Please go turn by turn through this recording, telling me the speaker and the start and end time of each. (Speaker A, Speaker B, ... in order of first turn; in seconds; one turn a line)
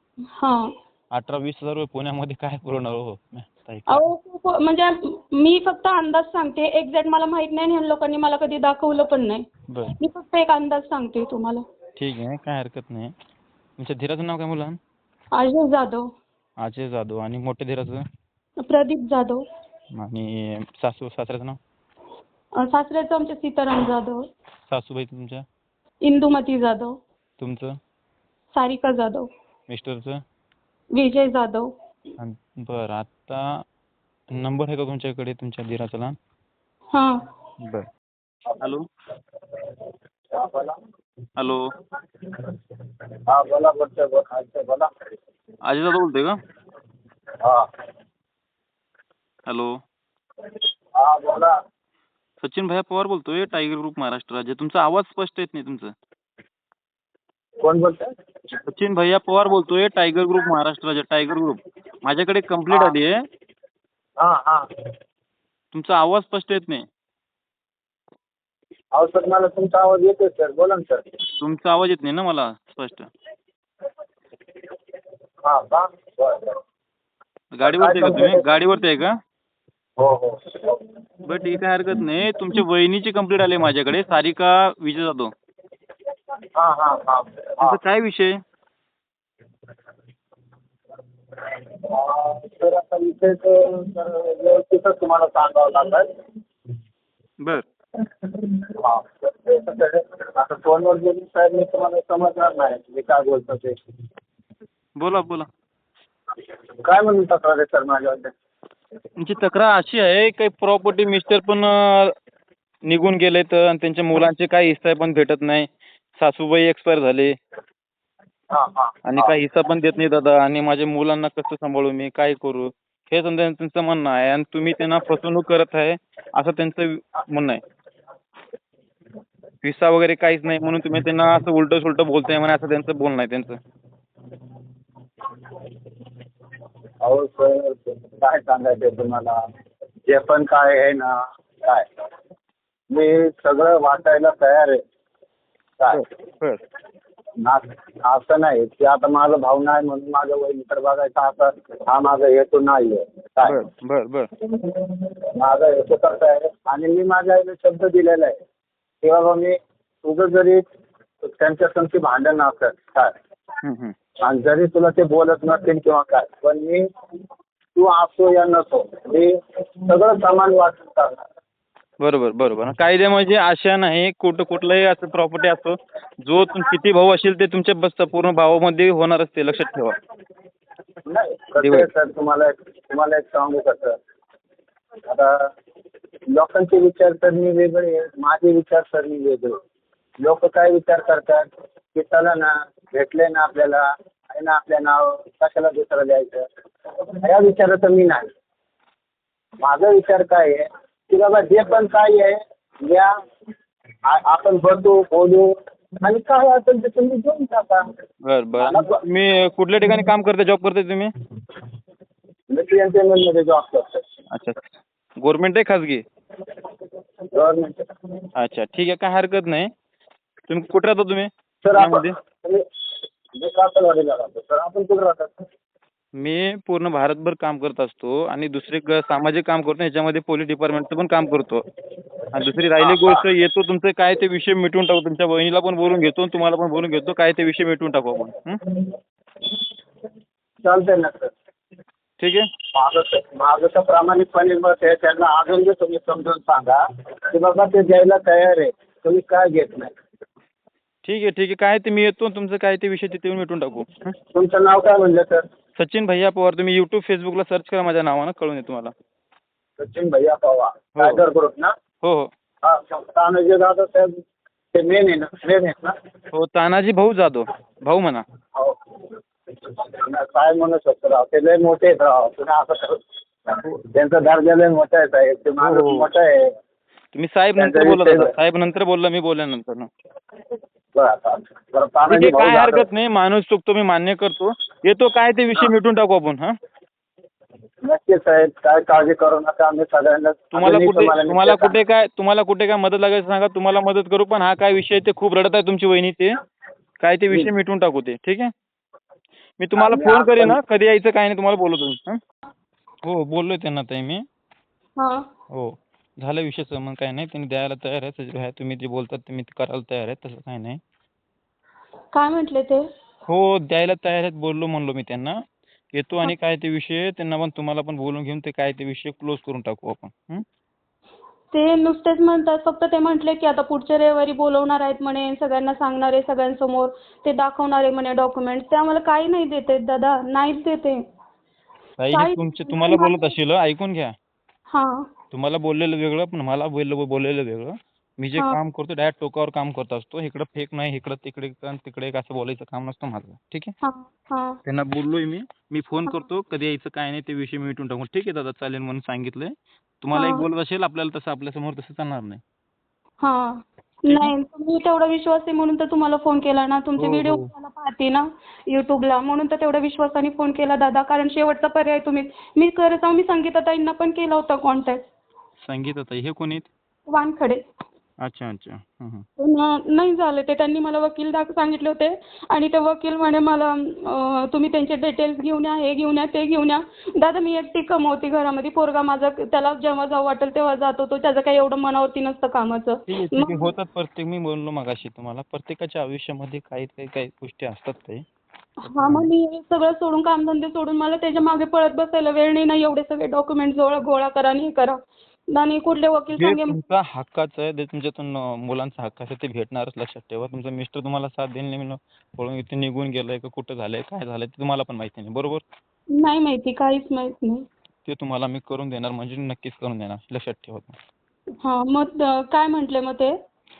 Speaker A: 0.4-0.7
Speaker B: 1.1-4.0
Speaker A: 3.9-9.4
Speaker A: 10.0-11.6
Speaker B: 11.9-13.1
Speaker B: 13.8-14.8
Speaker A: 15.3-16.1
Speaker B: 16.6-18.0
Speaker A: 18.6-19.4
Speaker B: 19.9-21.6
Speaker A: 22.6-24.2
Speaker B: 24.7-25.4
Speaker A: 26.0-27.0
Speaker B: 27.4-27.8
Speaker A: 28.5-29.3
Speaker B: 29.7-30.2
Speaker A: 30.9-31.7
Speaker B: 32.2-33.4
Speaker B: 34.3-36.1
Speaker B: 37.6-37.9
Speaker C: 40.3-40.8
Speaker B: 41.4-41.7
Speaker C: 43.3-44.9
Speaker B: 45.6-46.4
Speaker B: 49.5-49.8
Speaker C: 51.0-51.6
Speaker B: 52.4-55.9
Speaker C: 57.6-58.1
Speaker B: 58.7-63.2
Speaker C: 62.7-62.9
Speaker C: 64.2-64.7
Speaker B: 65.7-66.8
Speaker C: 68.9-71.0
Speaker B: 71.4-73.1
Speaker C: 75.4-76.6
Speaker B: 77.5-79.2
Speaker C: 77.6-78.4
Speaker C: 80.0-80.8
Speaker B: 81.2-85.3
Speaker C: 86.5-87.8
Speaker B: 87.6-88.4
Speaker C: 91.9-96.1
Speaker C: 98.3-103.7
Speaker B: 105.0-105.5
Speaker C: 106.8-108.3
Speaker B: 109.2-112.1
Speaker B: 112.8-117.3
Speaker C: 118.5-119.3
Speaker B: 119.0-127.6
Speaker B: 129.6-133.6
Speaker C: 137.0-139.4
Speaker C: 140.1-141.8
Speaker C: 142.9-144.8
Speaker B: 145.9-146.6
Speaker C: 147.4-153.6
Speaker B: 153.4-154.3
Speaker C: 154.6-158.3
Speaker C: 159.0-160.6
Speaker C: 161.2-163.1
Speaker B: 163.6-163.9
Speaker C: 164.2-166.8
Speaker C: 167.8-171.2
Speaker B: 172.0-179.9
Speaker C: 181.1-184.0
Speaker B: 181.6-181.9
Speaker C: 185.1-185.5
Speaker C: 186.3-189.5
Speaker C: 190.2-196.4
Speaker C: 197.2-198.3
Speaker C: 199.6-203.1
Speaker C: 204.1-207.8
Speaker B: 208.2-211.1
Speaker C: 208.6-209.0
Speaker C: 212.5-214.0
Speaker B: 214.3-214.6
Speaker B: 215.2-216.0
Speaker C: 217.3-217.8
Speaker B: 218.3-219.7
Speaker B: 220.5-222.1
Speaker C: 221.6-222.6
Speaker C: 223.3-225.3
Speaker B: 226.2-231.6
Speaker B: 232.3-238.6
Speaker C: 232.8-233.2
Speaker C: 240.6-241.3
Speaker B: 242.2-242.5
Speaker C: 242.7-246.8
Speaker C: 247.3-249.9
Speaker B: 251.0-254.1
Speaker C: 254.3-255.4
Speaker B: 255.8-258.9
Speaker C: 259.8-261.7
Speaker B: 260.9-261.2
Speaker B: 262.0-262.3
Speaker C: 262.6-264.1
Speaker C: 264.7-265.9
Speaker B: 266.3-268.2
Speaker C: 269.7-276.5
Speaker B: 275.6-276.1
Speaker B: 277.1-279.9
Speaker C: 277.6-278.3
Speaker C: 280.9-282.9
Speaker B: 282.1-286.5
Speaker C: 287.8-291.8
Speaker B: 290.5-296.3
Speaker B: 297.0-298.5
Speaker B: 299.6-302.2
Speaker C: 299.8-300.6
Speaker B: 303.0-304.2
Speaker A: 305.0-305.2
Speaker B: 305.5-310.8
Speaker A: 312.1-312.8
Speaker B: 313.3-315.4
Speaker B: 315.9-320.4
Speaker A: 321.5-331.0
Speaker B: 332.0-334.1
Speaker A: 332.1-333.3
Speaker A: 334.7-335.1
Speaker B: 335.3-343.7
Speaker A: 343.8-344.6
Speaker B: 344.6-352.4
Speaker A: 350.1-350.5
Speaker A: 353.2-365.0
Speaker B: 354.1-354.3
Speaker B: 357.0-357.5
Speaker B: 365.6-366.7
Speaker A: 367.1-367.6
Speaker B: 368.2-369.2
Speaker A: 369.4-383.7
Speaker B: 383.1-388.2
Speaker A: 388.8-395.0
Speaker B: 388.9-389.3
Speaker A: 395.5-396.8
Speaker B: 396.4-405.6
Speaker A: 406.2-407.6
Speaker B: 408.0-410.9
Speaker A: 411.6-413.3